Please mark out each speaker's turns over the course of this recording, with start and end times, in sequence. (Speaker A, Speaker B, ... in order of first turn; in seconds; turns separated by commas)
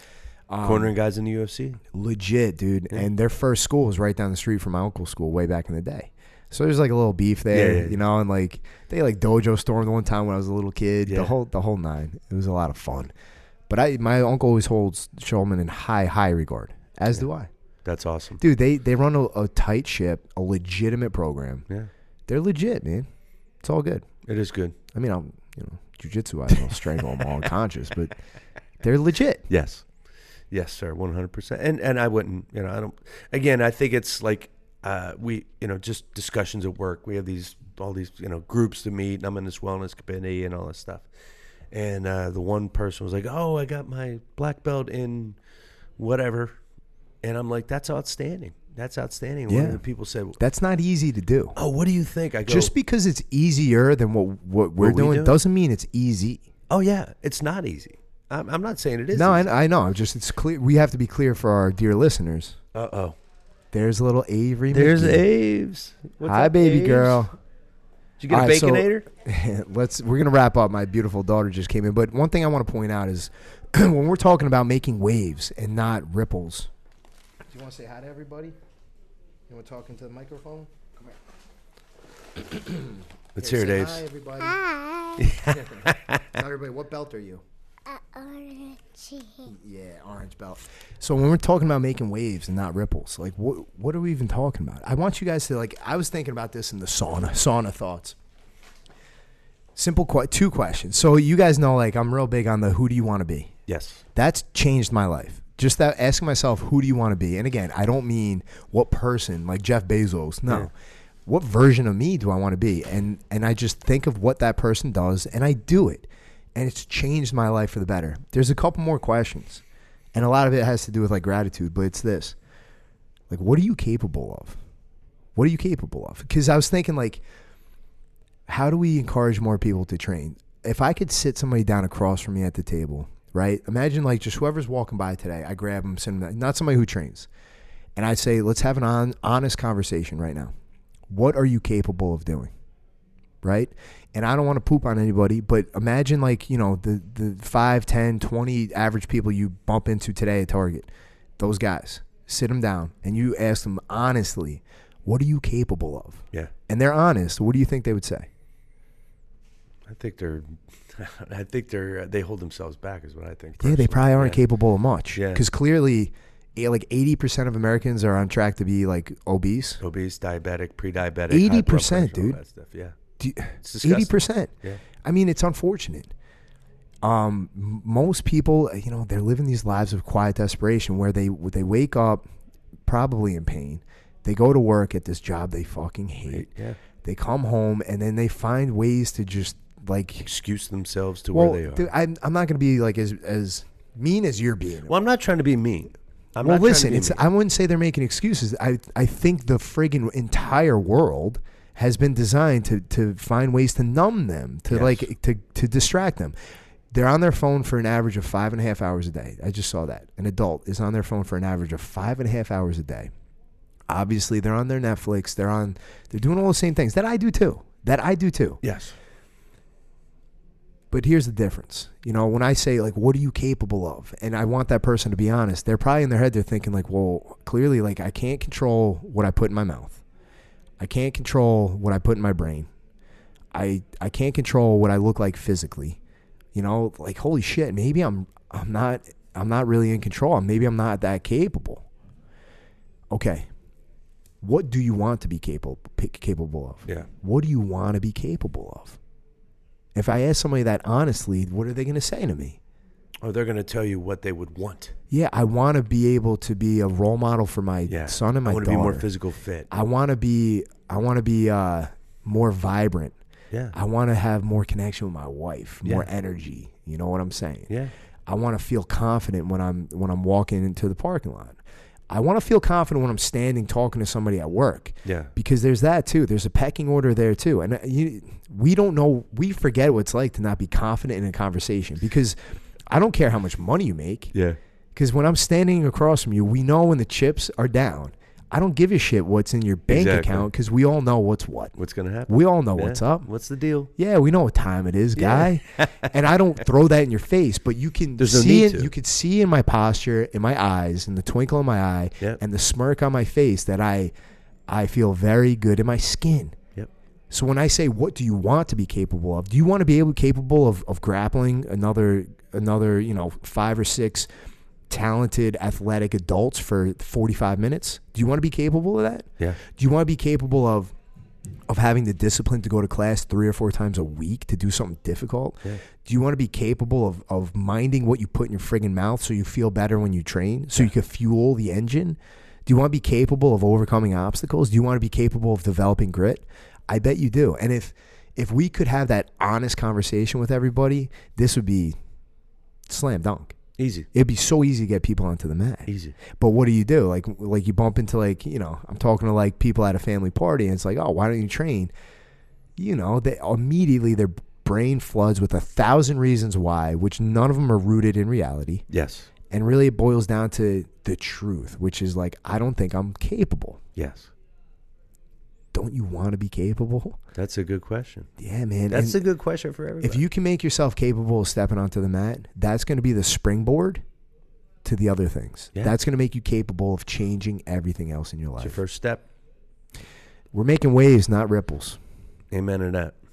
Speaker A: 0.5-0.9, Speaker B: 0.6-1.8, Speaker A: 1.9-13.1, Speaker B: 7.5-8.0, Speaker B: 11.1-11.3, Speaker A: 13.7-17.5, Speaker B: 17.9-18.4, Speaker A: 18.4-21.7, Speaker A: 22.3-23.1, Speaker A: 23.6-24.1, Speaker B: 24.2-24.8, Speaker A: 24.9-28.2, Speaker B: 26.7-27.2, Speaker A: 28.8-29.4, Speaker B: 29.5-29.9, Speaker B: 30.5-41.1, Speaker B: 41.7-45.4, Speaker B: 46.0-46.5, Speaker B: 47.2-50.4, Speaker A: 49.5-49.8, Speaker A: 50.4-51.6, Speaker B: 51.6-52.7, Speaker A: 52.5-56.4, Speaker B: 54.8-55.4, Speaker B: 56.7-59.5, Speaker A: 59.1-62.6, Speaker B: 62.7-63.2, Speaker A: 63.7-65.2, Speaker B: 64.7-67.3, Speaker A: 66.2-67.4, Speaker B: 68.2-69.1, Speaker A: 68.3-76.7, Speaker A: 77.5-78.6, Speaker A: 79.5-81.2, Speaker A: 82.4-84.7, Speaker B: 83.3-84.0, Speaker C: 84.6-85.1, Speaker B: 85.2-86.3, Speaker A: 85.4-87.4, Speaker C: 87.9-89.5, Speaker A: 89.5-98.2, Speaker A: 99.8-103.5, Speaker B: 103.7-104.0, Speaker A: 104.2-110.7, Speaker A: 111.3-119.6, Speaker A: 120.2-122.4, Speaker A: 123.3-124.6, Speaker A: 125.3-127.2, Speaker A: 128.5-137.3, Speaker A: 138.0-140.5, Speaker A: 141.1-142.5, Speaker A: 143.4-158.3, Speaker B: 159.9-164.4, Speaker A: 163.6-169.8, Speaker B: 165.2-165.4, Speaker B: 169.8-173.0, Speaker A: 171.3-172.4, Speaker A: 173.2-174.5, Speaker B: 173.6-174.8, Speaker A: 175.0-176.1, Speaker A: 177.0-182.2, Speaker A: 182.9-186.5, Speaker B: 186.3-186.8, Speaker A: 187.0-190.3, Speaker B: 190.2-191.9, Speaker A: 191.3-195.0, Speaker B: 194.9-197.2, Speaker A: 196.4-206.3, Speaker B: 204.7-205.1, Speaker A: 206.9-213.1, Speaker A: 213.9-218.6, Speaker B: 218.6-219.0, Speaker A: 220.9-230.0, Speaker A: 230.8-232.7, Speaker A: 233.5-236.0, Speaker A: 236.6-241.9, Speaker A: 243.1-243.5, Speaker A: 244.4-249.0, Speaker A: 249.9-252.6, Speaker B: 253.2-254.9, Speaker A: 255.1-259.1, Speaker B: 257.9-259.7, Speaker A: 259.7-263.2, Speaker A: 263.7-267.7, Speaker B: 265.8-266.1, Speaker A: 268.3-271.6, Speaker A: 272.1-282.4, Speaker B: 275.1-275.3, Speaker A: 282.9-284.3, Speaker A: 284.9-291.8, Speaker B: 289.9-290.5, Speaker B: 291.8-293.9, Speaker A: 292.3-293.3, Speaker A: 294.0-304.1, Speaker B: 295.2-296.1, Speaker B: 298.2-298.9, Speaker A: 304.7-306.6, Speaker A: 307.3-314.3, Speaker A: 314.9-320.9, Speaker A: 321.7-342.0, Speaker A: 342.9-343.6, Speaker B: 343.8-344.1, Speaker A: 344.1-351.9, Speaker B: 345.9-346.2, Speaker A: 352.8-358.9, Speaker B: 358.9-359.3, Speaker A: 359.5-363.8, Speaker B: 363.9-364.3, Speaker A: 365.7-367.2, Speaker B: 367.4-368.3, Speaker A: 368.4-369.2, Speaker B: 368.9-370.2, Speaker A: 370.0-374.0, Speaker A: 374.8-378.8, Speaker B: 378.6-379.2, Speaker A: 380.5-382.0, Speaker B: 382.5-383.2